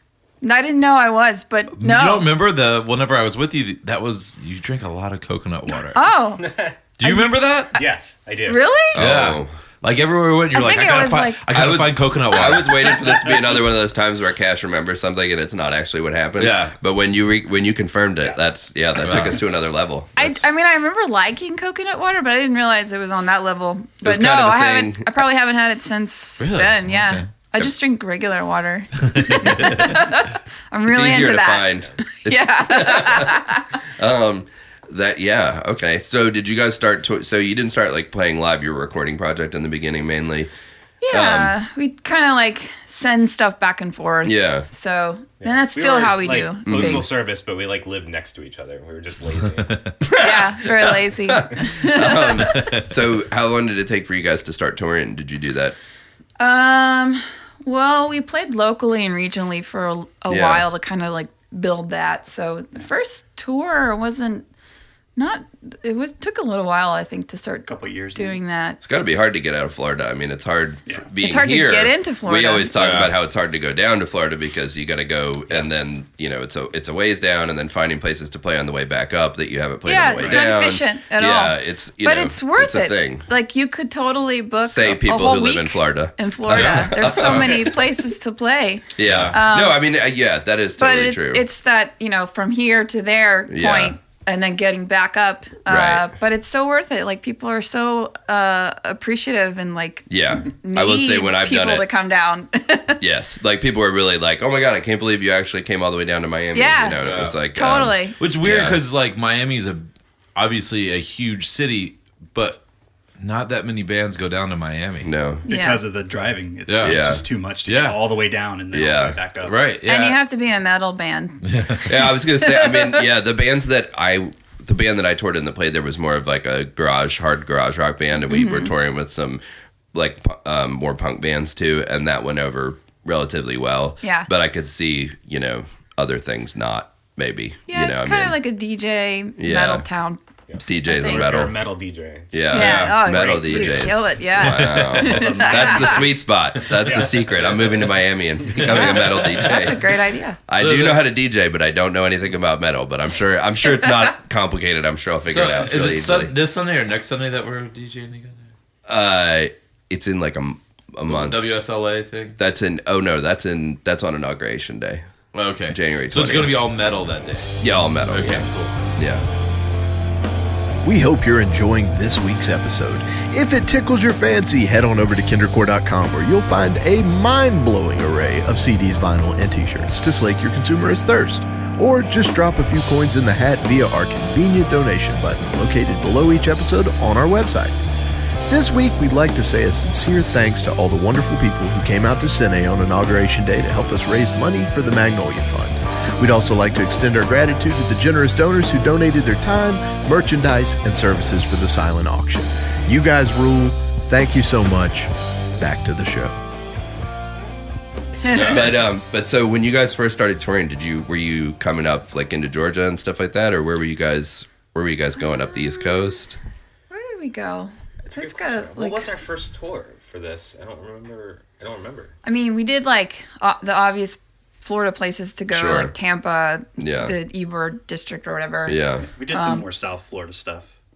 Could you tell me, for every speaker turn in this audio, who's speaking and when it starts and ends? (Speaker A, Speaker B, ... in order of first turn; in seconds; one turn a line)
Speaker A: 0.4-2.3
Speaker B: 1.8-6.0
Speaker A: 5.9-7.8
Speaker C: 6.4-6.8
Speaker B: 7.0-7.8
Speaker C: 7.7-8.7
Speaker A: 8.5-9.0
Speaker D: 8.9-9.5
Speaker B: 9.0-13.2
Speaker A: 10.5-11.4
Speaker D: 11.5-20.4
Speaker B: 16.4-16.8
Speaker B: 19.0-19.4
Speaker A: 20.2-33.7
Speaker D: 24.0-25.1
Speaker B: 26.4-27.2
Speaker B: 29.0-30.0
Speaker D: 30.9-40.5
Speaker A: 41.0-47.1
Speaker D: 41.1-41.5
Speaker D: 44.2-44.7
Speaker C: 45.4-49.9
Speaker D: 46.6-47.1
Speaker D: 50.0-55.8
Speaker A: 50.2-52.6
Speaker B: 52.5-52.8
Speaker A: 56.4-64.5
Speaker D: 60.3-60.6
Speaker A: 65.2-68.8
Speaker E: 67.7-68.4
Speaker D: 68.8-83.2
Speaker A: 71.2-72.7
Speaker B: 72.8-73.1
Speaker A: 79.8-89.8
Speaker D: 84.6-87.8
Speaker B: 86.5-87.5
Speaker D: 89.0-91.4
Speaker B: 89.0-89.4
Speaker A: 90.8-103.0
Speaker D: 93.5-94.0
Speaker D: 95.7-96.1
Speaker D: 100.1-101.8
Speaker D: 103.0-108.8
Speaker A: 106.5-107.0
Speaker B: 107.0-107.4
Speaker A: 107.5-108.2
Speaker B: 108.2-112.6
Speaker B: 113.2-115.1
Speaker D: 115.0-115.5
Speaker E: 115.5-119.5
Speaker A: 115.5-115.8
Speaker B: 116.7-118.0
Speaker D: 116.8-117.2
Speaker D: 118.7-119.2
Speaker B: 119.4-120.2
Speaker A: 119.9-123.0
Speaker B: 121.4-121.9
Speaker D: 121.9-129.4
Speaker A: 128.2-128.7
Speaker D: 129.9-138.4
Speaker A: 134.0-134.3
Speaker A: 137.7-141.3
Speaker D: 139.4-139.9
Speaker C: 140.5-143.9
Speaker D: 140.7-141.6
Speaker D: 142.3-150.0
Speaker A: 142.5-146.1
Speaker B: 144.4-145.5
Speaker C: 145.3-145.8
Speaker C: 146.8-147.3
Speaker B: 148.7-149.5
Speaker A: 148.7-150.4
Speaker D: 150.5-156.3
Speaker B: 150.6-151.1
Speaker B: 155.3-158.5
Speaker D: 158.9-161.5
Speaker B: 161.1-162.4
Speaker D: 162.4-165.0
Speaker B: 165.3-168.8
Speaker D: 165.7-166.6
Speaker D: 167.6-169.2
Speaker F: 170.8-187.8
Speaker F: 188.5-206.3
Speaker A: 208.2-208.7
Speaker D: 208.3-216.4
Speaker A: 215.5-215.9
Speaker A: 216.9-219.1
Speaker C: 218.0-222.1
Speaker A: 222.2-228.8
Speaker D: 225.5-225.9
Speaker D: 226.8-227.2
Speaker D: 228.7-229.1
Speaker E: 229.1-230.7
Speaker A: 229.3-229.7